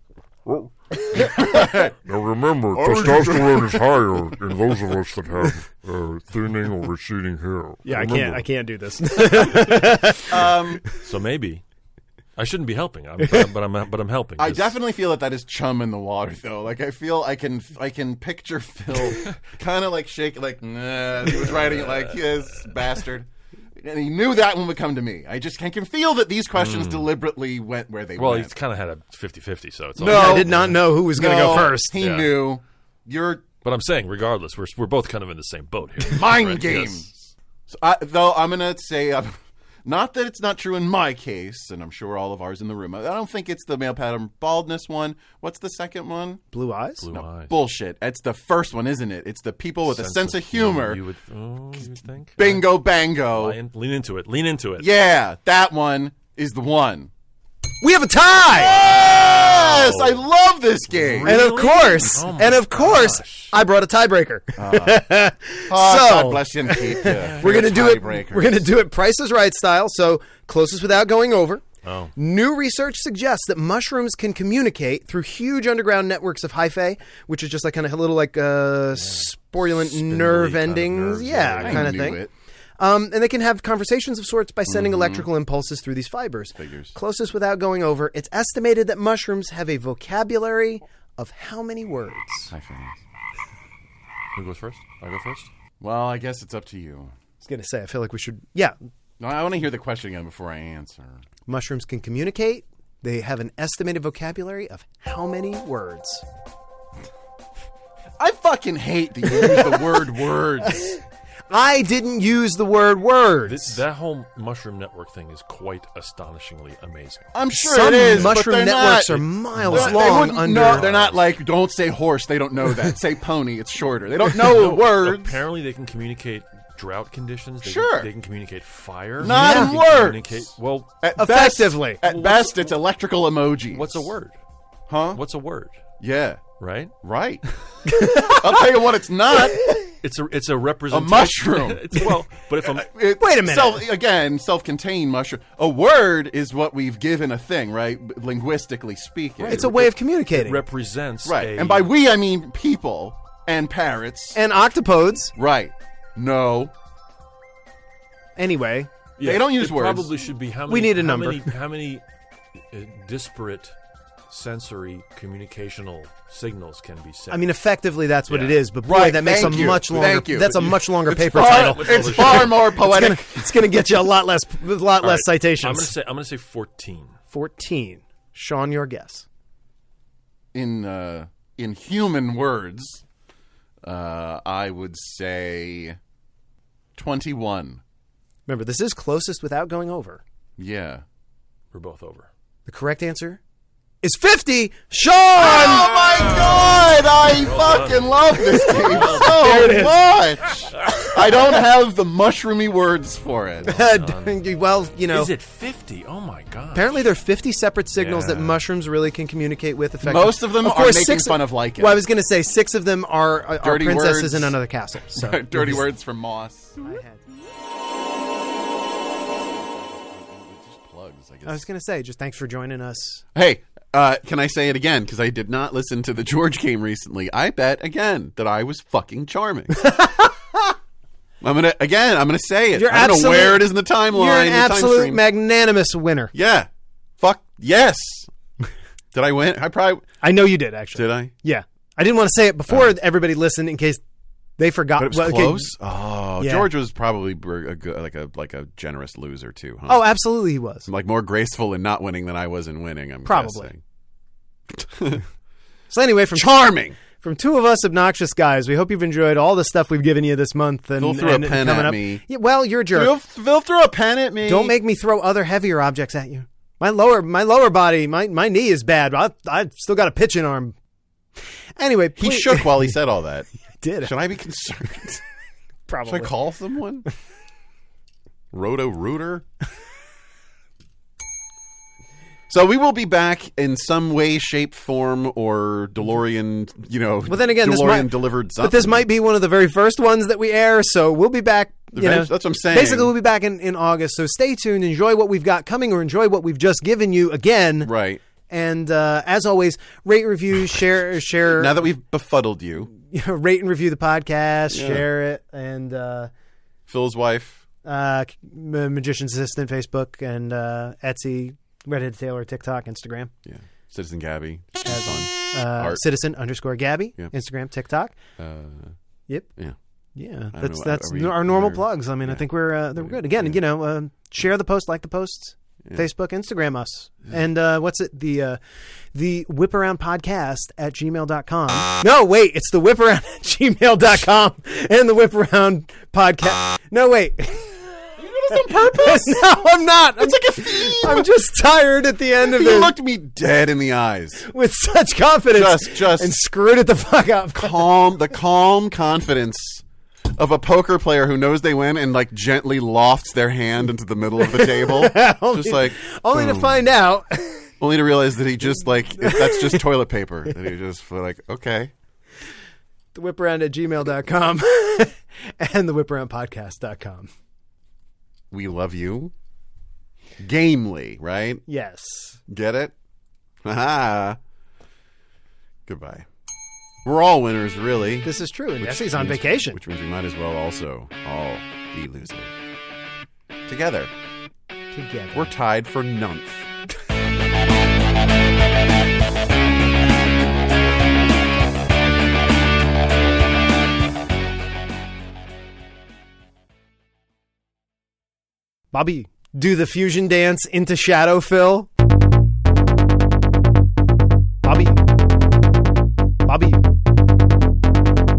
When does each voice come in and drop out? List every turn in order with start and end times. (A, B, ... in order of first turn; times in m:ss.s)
0:00.5-0:08.4 A
0:01.2-0:01.9 B
0:02.7-0:03.8 B
0:07.8-0:10.6 C
0:10.3-0:10.8 B
0:11.0-0:11.6 D
0:12.4-0:14.8 D
0:13.2-0:13.5 C
0:14.4-0:28.6 B
0:21.5-0:22.1 D
0:26.5-0:27.1 D
0:28.2-0:30.8 D
0:30.0-0:33.5 B
0:30.0-0:31.9 C
0:31.4-0:32.4 D
0:33.6-0:37.3 D
0:36.1-0:37.1 B
0:37.7-0:46.4 B
0:46.5-0:47.0 C
0:47.0-0:47.5 D
0:47.1-0:51.0 B
0:49.8-0:52.8 D
0:52.4-0:53.6 B
0:53.3-0:54.9 D
0:54.8-0:57.1 B
0:57.8-0:58.8 C
0:58.5-1:01.5 B
0:58.6-1:00.2 D
1:00.9-1:03.5 D
1:01.2-1:11.6 C
1:04.6-1:05.0 B
1:05.7-1:08.7 B
1:07.1-1:07.6 D
1:11.8-1:12.1 D
1:12.2-1:22.2 C
1:18.9-1:22.0 D
1:21.6-1:22.3 B
1:22.8-1:32.5 C
1:24.7-1:25.2 B
1:26.5-1:27.0 B
1:32.5-1:33.0 B
1:34.3-1:35.5 D
1:35.8-1:37.1 B
1:37.4-1:38.8 C
1:39.2-1:41.2 B
1:41.5-1:46.2 C
1:48.2-1:50.9 B
1:50.7-1:51.0 C
1:51.5-1:53.8 C
1:53.4-1:57.3 D
1:57.3-2:05.4 B
1:57.6-2:00.9 C
1:57.9-1:58.4 D
1:59.6-2:01.3 D
2:04.3-2:11.0 D
2:07.6-2:08.1 B
2:09.2-2:14.1 B
2:09.2-2:09.8 C
2:11.2-2:12.0 C
2:12.0-2:12.7 D
2:13.7-2:14.4 D
2:14.9-2:15.2 B
2:15.1-2:15.8 D
2:16.0-2:16.4 B
2:16.6-2:16.9 D
2:17.0-2:17.4 B
2:17.8-2:18.8 C
2:18.2-2:19.7 B
2:20.0-2:22.9 D
2:20.9-2:22.1 B
2:22.6-2:29.9 B
2:23.2-2:23.9 C
2:29.4-2:31.9 D
2:29.5-2:30.6 C
2:31.2-2:34.4 B
2:34.3-2:35.3 C
2:35.3-2:36.7 B
2:38.4-2:38.9 C
2:39.2-2:42.0 D
2:39.2-2:40.1 B
2:40.7-2:41.5 C
2:42.6-2:43.8 D
2:44.3-2:47.5 D
2:47.3-2:55.9 C
2:48.3-2:48.6 D
2:48.8-2:53.4 B
2:49.3-2:52.7 D
2:55.0-2:57.2 D
2:57.3-2:59.2 C
3:00.5-3:03.0 B
3:03.8-3:06.0 B
3:06.9-3:07.8 B
3:08.5-3:10.2 C
3:10.6-3:11.0 B
3:11.7-3:12.3 D
3:12.7-3:13.4 C
3:14.0-3:15.9 C
3:15.4-3:23.7 B
3:15.6-3:19.9 D
3:18.8-3:20.0 C
3:20.8-3:21.1 D
3:23.6-3:24.4 D
3:23.6-3:25.3 C
3:25.1-3:27.1 D
3:26.7-3:35.9 C
3:28.0-3:28.6 D
3:30.0-3:32.0 B
3:33.6-3:34.6 B
3:35.2-3:36.9 B
3:36.8-3:37.2 C
3:39.2-3:41.6 B
3:41.4-3:43.2 C
3:43.3-3:49.9 B
3:49.8-3:50.4 C
3:51.4-3:55.2 B
3:52.7-3:56.3 C
3:56.3-3:56.7 B
3:57.2-3:58.3 B
3:59.1-4:00.2 B
4:00.2-4:04.0 C
4:00.9-4:01.3 B
4:04.6-4:05.7 C
4:05.0-4:10.1 B
4:06.4-4:06.7 C
4:09.9-4:10.9 C
4:10.8-4:13.8 B
4:13.2-4:13.7 C
4:14.8-4:15.2 B
4:15.9-4:23.1 C
4:16.3-4:17.0 B
4:21.0-4:22.2 B
4:22.9-4:24.7 B
4:24.4-4:30.7 C
4:31.8-4:33.0 C
4:32.2-4:33.5 B
4:33.8-4:34.1 C
4:34.0-4:35.2 B
4:35.9-4:36.3 C
4:36.0-4:37.1 B
4:38.5-4:39.4 B
4:42.5-4:49.0 B
4:47.3-4:57.9 C
4:51.9-4:53.1 B
4:57.8-4:58.2 B
4:58.5-5:01.8 C
5:01.5-5:02.9 B
5:03.0-5:06.3 C
5:04.7-5:05.0 B
5:06.9-5:07.6 B
5:07.8-5:13.3 C
5:13.4-5:16.0 B
5:14.8-5:18.2 C
5:18.4-5:18.9 B
5:20.2-5:28.6 C
5:20.5-5:22.4 B
5:23.0-5:23.6 B
5:29.1-5:38.0 C
5:38.2-5:41.3 B
5:38.5-5:42.9 C
5:42.4-5:44.4 B
5:44.4-5:48.3 C
5:45.5-5:46.3 B
5:47.6-5:56.8 B
5:54.4-5:57.7 C
5:57.8-6:01.9 B
5:59.2-5:59.8 C
6:03.1-6:07.3 C
6:08.5-6:09.3 B
6:10.4-6:11.6 B
6:11.7-6:12.4 C
6:12.5-6:12.9 B
6:13.6-6:14.4 B
6:15.9-6:16.3 B
6:17.0-6:22.5 B
6:18.2-6:19.8 C
6:23.7-6:24.1 B
6:24.9-6:25.5 C
6:25.3-6:26.7 B
6:38.9-6:41.9 C
6:44.6-6:45.0 C
6:46.4-6:46.8 C